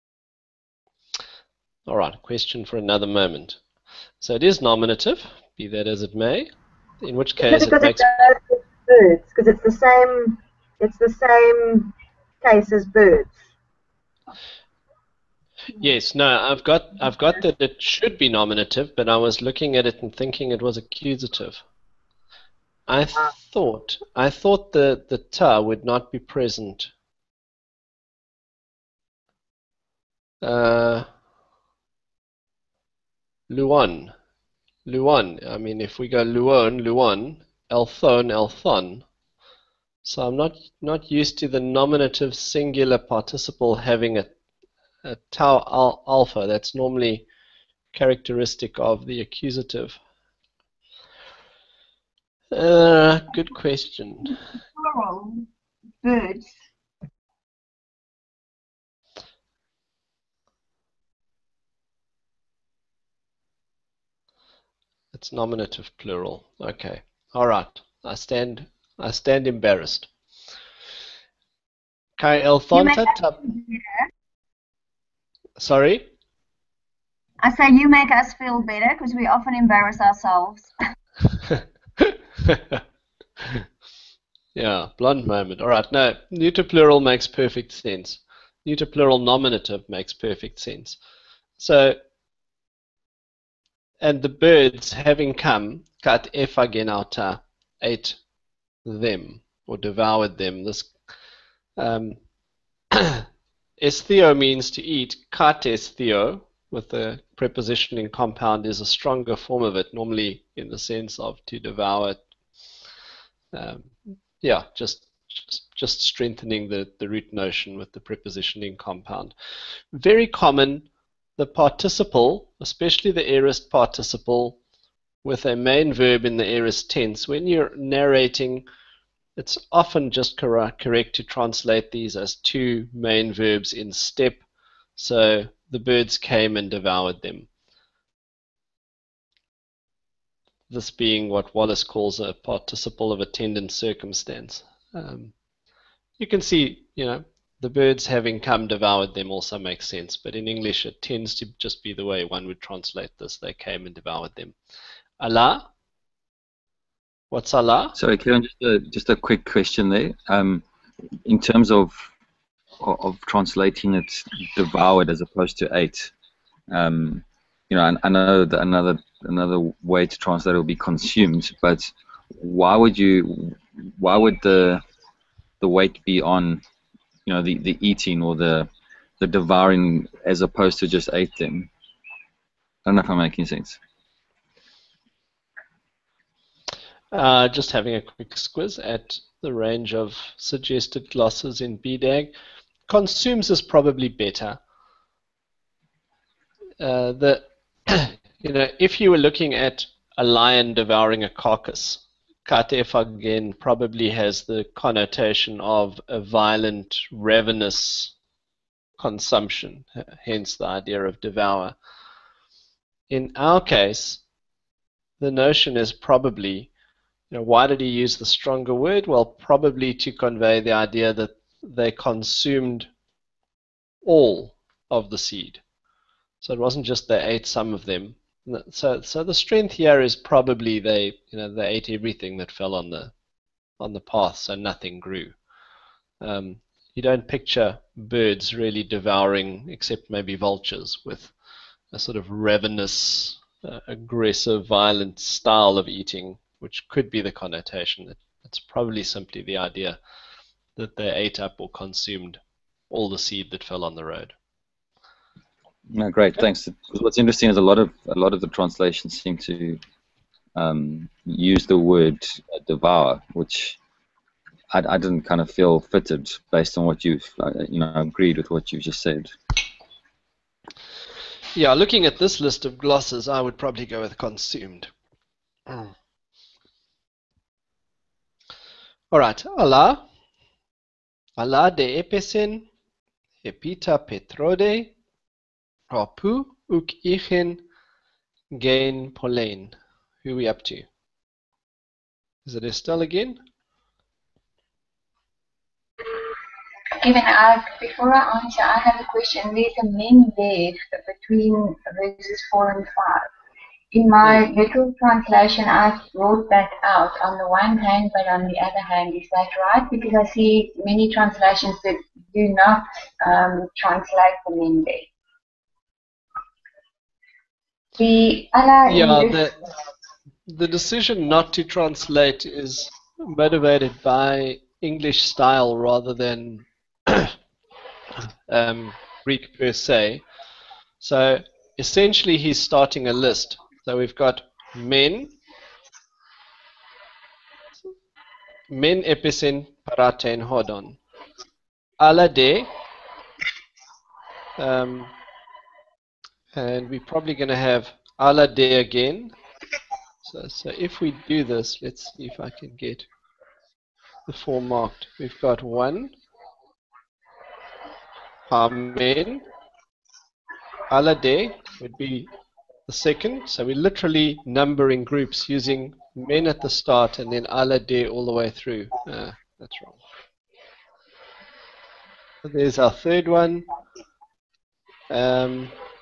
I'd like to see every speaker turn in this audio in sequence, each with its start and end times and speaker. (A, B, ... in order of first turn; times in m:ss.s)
0:01.9-0:03.6 A
0:04.2-0:08.1 A
0:07.4-0:13.3 B
0:15.8-0:21.6 A
0:22.9-0:26.9 A
0:30.4-0:31.1 A
0:33.5-0:34.1 A
0:34.8-0:39.0 A
0:40.0-0:44.3 A
0:45.0-0:47.2 A
0:47.9-0:50.0 A
0:52.5-0:54.4 A
0:54.8-0:55.5 C
0:56.0-0:56.5 C
1:05.1-1:10.1 A
1:12.2-1:13.4 A
1:12.7-1:14.0 C
1:15.6-1:16.1 A
1:17.4-1:20.7 C
1:21.5-1:22.8 A
1:24.5-1:31.0 A
1:31.6-1:32.0 A
1:34.0-1:38.2 A
1:38.8-1:40.9 A
1:41.8-1:42.2 A
1:42.9-1:43.2 A
1:43.8-1:52.2 A
1:53.5-1:59.3 A
1:59.9-2:00.8 A
2:01.4-2:04.6 A
2:05.2-2:08.6 A
2:09.4-2:14.4 A
2:15.0-2:17.5 A
2:20.7-2:25.3 A
2:26.2-2:34.5 A
2:35.2-2:35.6 A
2:37.3-2:38.0 A
2:38.0-2:40.6 D
2:41.2-2:41.9 D
2:42.8-2:46.1 D
2:46.7-2:54.8 D
2:55.6-2:56.6 D
2:57.2-3:01.7 D
3:02.8-3:03.8 D
3:07.1-3:12.3 A
3:12.9-3:14.6 A
3:16.8-3:28.1 A
3:29.0-3:31.7 A
3:33.1-3:34.2 A
3:35.2-3:36.7 A
3:37.3-3:42.9 A
3:44.0-3:45.6 A
3:46.4-3:53.1 A
3:53.8-3:55.3 A
3:56.2-4:01.3 A
4:01.9-4:10.0 A
4:10.8-4:14.3 A
4:15.9-4:19.8 D
4:20.5-4:23.8 D
4:24.7-4:29.3 D
4:31.5-4:34.9 A
4:39.1-4:40.0 A
4:41.4-4:42.6 A
4:43.4-4:44.9 A
4:45.9-4:47.6 A
4:48.5-4:50.9 A
4:52.4-4:53.4 A
4:56.9-5:03.3 E
5:03.9-5:15.1 E
5:18.0-5:19.5 E
5:18.9-5:19.5 A
5:20.5-5:27.3 A
5:28.5-5:30.2 A
5:31.0-5:35.3 A
5:38.7-5:41.0 A
5:42.0-5:42.7 A
5:44.6-5:45.1 A
5:46.5-5:49.3 A
5:50.2-5:53.1 A
5:54.3-5:56.1 A
5:58.5-5:59.4 A
6:00.9-6:02.3 A
6:02.9-6:10.0 A
6:12.4-6:13.6 A
6:15.1-6:15.7 A